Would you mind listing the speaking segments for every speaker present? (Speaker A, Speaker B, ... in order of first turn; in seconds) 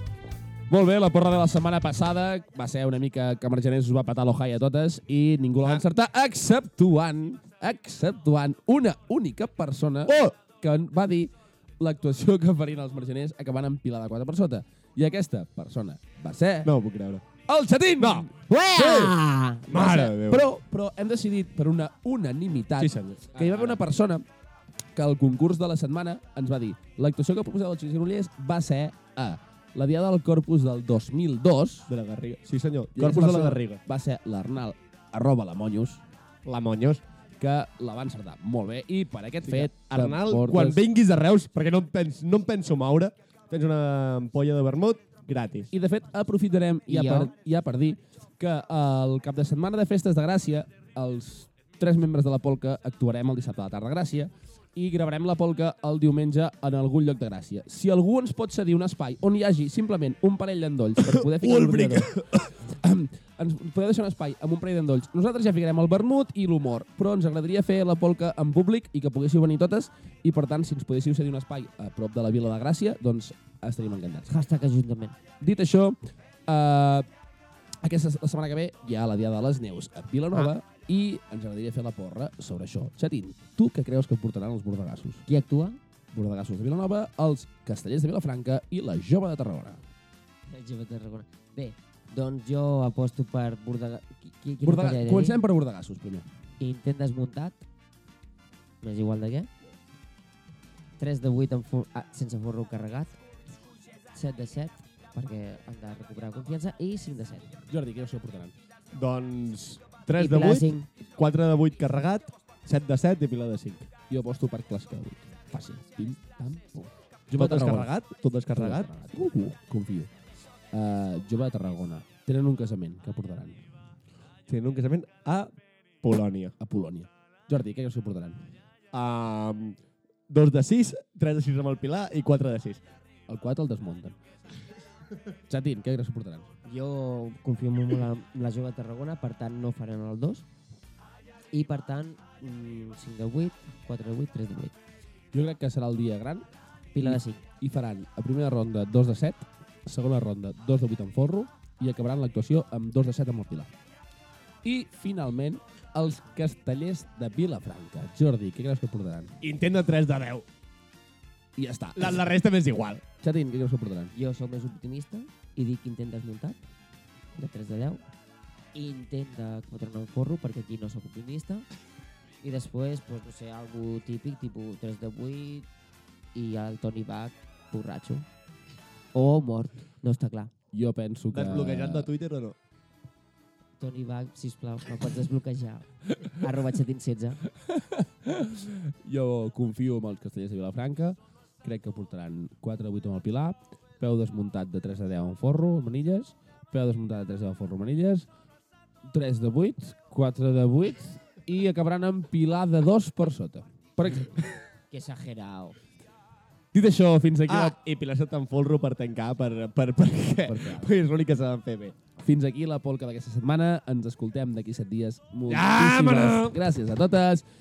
Speaker A: 0.7-16.7, 17.5-18.3, 19.7-24.2, 24.9-31.9, 33.0-36.0, 37.4-40.8, 45.7-74.3, 75.4-76.0, 76.5-77.1, 77.8-85.2, 86.1-89.8, 94.6-96.3, 107.7-108.5, 114.1-117.9, 118.5-120.1, 120.7-123.6, 126.6-128.4, 133.3-134.2, 135.5-136.5, 145.3-146.5, 147.0-153.7, 154.6-159.4, 161.6-162.2, 163.2-164.1, 180.7-182.1, 187.7-198.3, 199.1-204.4, 206.7-207.8, 210.5-210.9, 212.2-217.4
Speaker B: 10.1-10.3, 16.6-17.2, 18.0-19.1, 19.7-20.5, 22.8-23.8, 31.9-33.8, 36.5-37.0, 39.5-45.7, 61.1-62.5, 108.9-113.9, 117.3-118.9, 124.5-125.5, 126.0-126.5, 128.9-129.8, 130.3-132.8, 159.4-160.5, 161.9-163.0, 181.3-182.6, 207.5-211.9, 215.5-216.6
Speaker C: 18.4-20.0, 46.9-47.3, 74.3-75.2, 85.3-85.8, 90.5-95.4, 96.6-97.6, 98.8-99.5, 101.0-103.2, 104.1-107.5, 110.2-110.9, 136.7-140.4, 141.5-144.7, 146.9-147.4, 164.1-166.6, 167.4-168.0, 168.7-171.7, 172.4-175.7, 176.3-178.2, 179.1-180.5, 183.8-187.4, 204.9-205.8